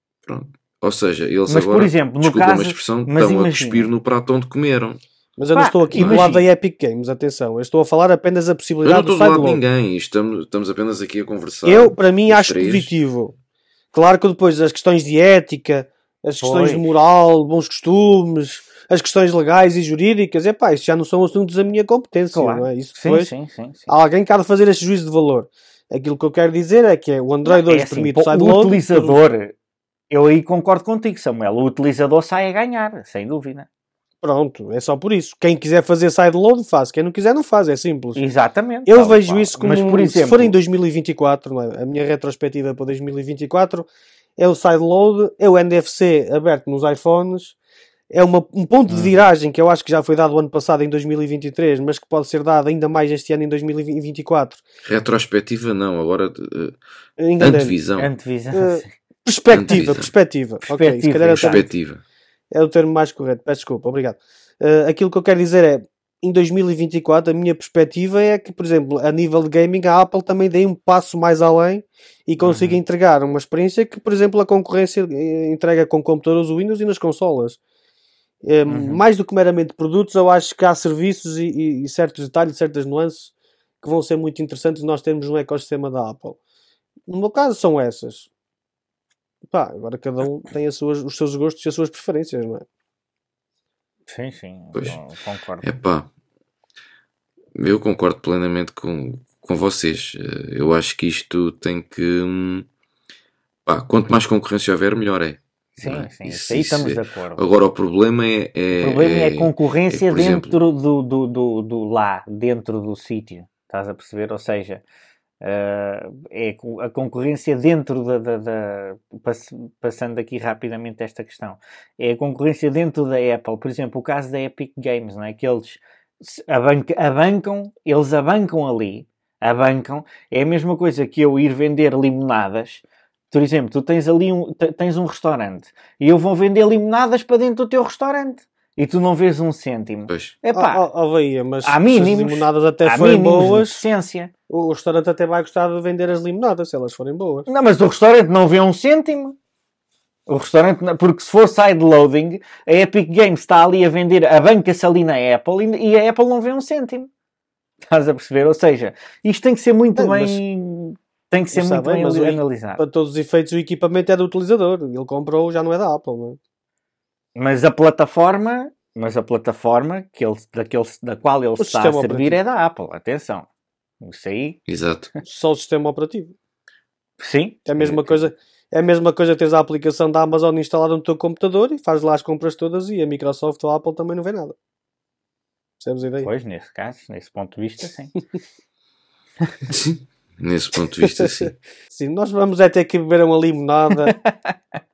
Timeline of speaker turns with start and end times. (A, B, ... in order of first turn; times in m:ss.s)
0:00.2-0:05.0 A
0:01.5-0:03.9 B
0:05.4-0:09.6 C
0:05.5-0:06.4 B
0:05.9-0:06.3 A
0:08.8-0:12.9 A
0:11.6-0:13.3 C
0:13.9-0:23.3 C
0:16.4-0:16.9 B
0:22.3-0:23.9 B
0:23.9-0:29.2 C
0:27.4-0:29.5 B
0:30.1-0:33.6 B
0:34.2-0:38.2 C
0:38.1-0:40.5 B
0:38.8-0:47.6 C
0:48.1-0:54.6 C
0:48.9-0:49.2 B
0:54.8-0:56.8 A
0:57.2-0:57.8 C
0:57.4-0:58.1 A
0:58.0-0:58.9 B
0:58.5-1:01.6 C
0:59.5-1:00.1 A
1:00.6-1:01.6 B
1:01.3-1:02.0 A
1:02.5-1:17.6 C
1:12.4-1:12.8 B
1:18.4-1:26.4 C
1:18.7-1:19.0 B
1:27.1-1:28.3 C
1:29.5-1:32.6 C
1:34.1-1:35.6 B
1:35.6-1:36.1 A
1:37.6-1:42.6 A
1:43.6-1:50.6 A
1:45.8-1:47.4 B
1:48.7-1:54.8 B
1:55.4-2:20.8 B
2:20.1-2:20.3 A
2:20.5-2:23.8 C
2:21.6-2:24.3 B
2:24.5-2:27.5 C
2:27.5-2:29.4 B
2:30.3-2:37.1 B
2:37.8-2:42.8 B
2:40.0-2:40.4 C
2:41.5-2:46.4 C
2:47.4-2:53.5 B
2:51.6-2:52.4 C
2:54.0-2:54.6 B
2:54.7-2:55.1 A
2:55.2-2:56.3 C
2:57.2-2:57.6 B
2:57.6-3:04.5 C
2:57.8-2:58.3 A
3:05.8-3:06.3 C
3:06.2-3:08.2 B
3:09.7-3:11.5 A
3:11.0-3:14.1 C
3:14.0-3:14.6 B